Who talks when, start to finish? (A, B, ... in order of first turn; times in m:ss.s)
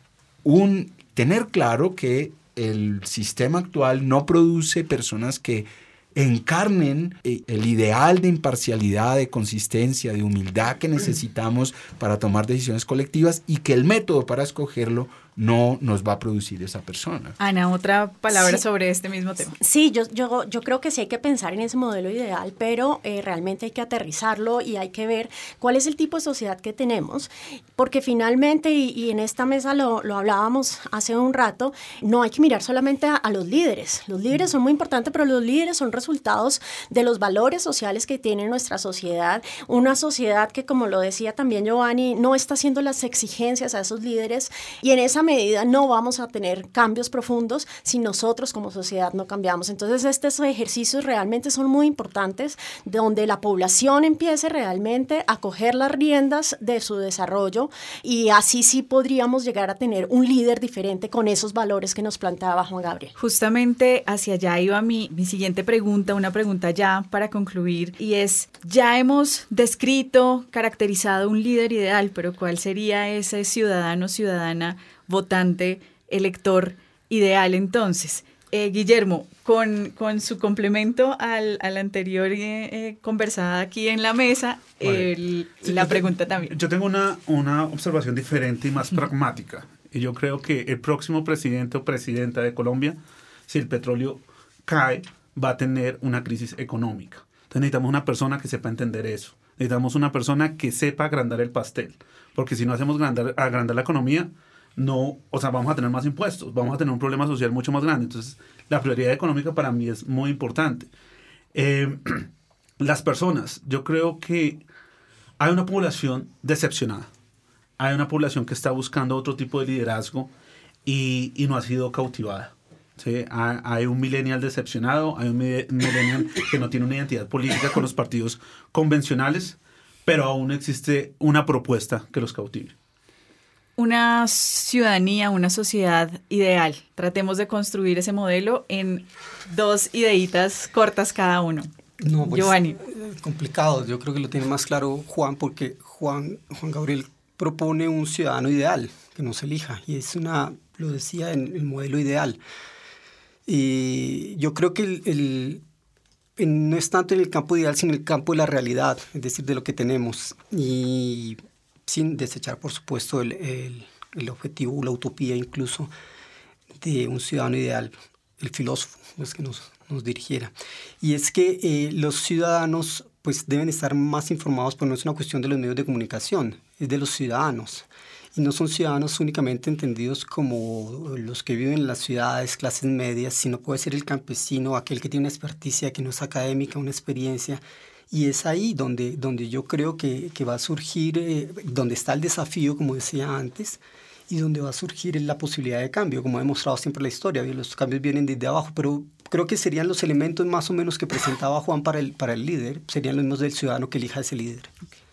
0:00.4-0:17.4 A
0:17.4-0:19.6 B
0:18.3-0:18.6 C
0:19.6-1:03.1 C
1:03.2-1:26.5 B
1:24.8-1:50.9 D
1:51.5-1:52.3 D
1:52.8-1:54.6 D
1:55.4-1:57.1 D
1:57.8-2:00.3 D
2:00.8-2:12.7 D
2:13.8-2:21.7 B
2:22.0-2:32.4 E
2:22.2-2:22.8 B
2:33.5-2:35.6 E
2:36.4-2:45.9 E
2:46.8-3:24.7 E